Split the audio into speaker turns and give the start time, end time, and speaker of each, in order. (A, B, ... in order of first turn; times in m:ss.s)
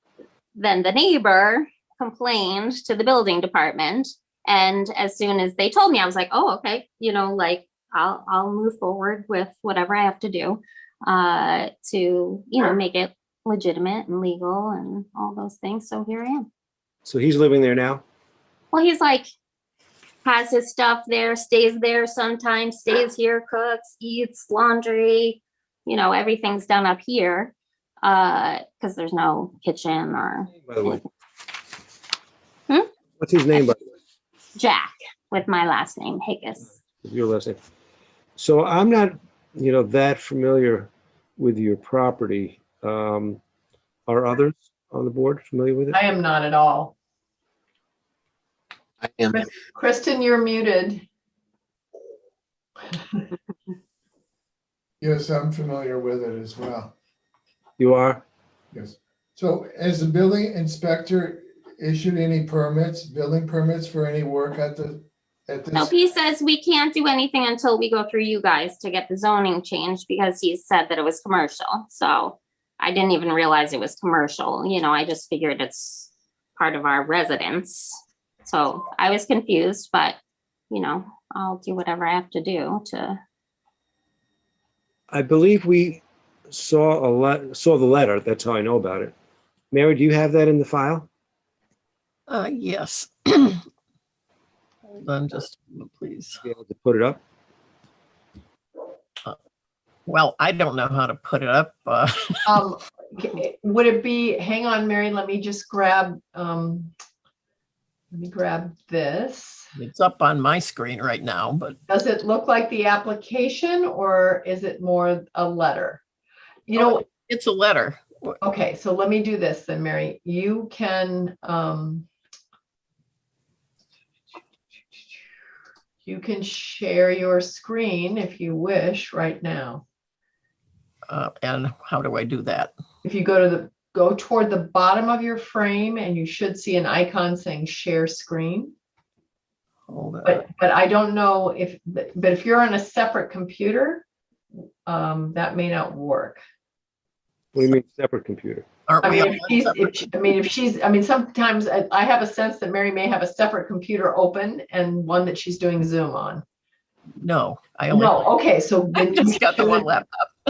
0:00.5-0:16.5 A
0:17.0-0:18.0 B
0:18.7-0:19.3 A
0:20.2-0:31.0 A
0:30.5-0:31.0 B
0:33.2-0:33.9 B
0:34.6-0:36.7 A
0:37.0-0:37.6 B
0:38.4-0:43.4 B
0:44.1-0:46.0 B
0:45.9-0:46.9 C
0:49.3-0:51.0 C
0:55.0-0:56.9 D
0:57.8-0:58.2 B
0:58.7-1:05.9 D
1:05.7-1:20.2 A
1:20.7-1:23.2 A
1:25.1-1:29.1 B
1:29.7-1:31.1 B
1:32.3-1:33.6 E
1:34.9-1:36.4 E
1:36.4-1:37.2 B
1:40.1-1:42.6 E
1:42.5-1:46.9 C
1:48.1-1:49.7 C
1:49.8-1:51.8 E
1:51.9-1:56.0 C
1:56.7-1:57.0 C
1:56.7-1:58.4 E
1:58.4-2:02.1 C
2:06.0-2:09.8 C
2:11.1-2:12.7 E
2:13.0-2:18.7 C
2:19.9-2:20.4 E
2:20.2-2:24.0 C
2:24.8-2:26.4 C
2:27.5-2:28.6 B
2:28.9-2:30.0 E
2:29.0-2:36.4 C
2:37.2-2:38.3 E
2:37.9-2:39.9 C
2:38.9-2:40.3 E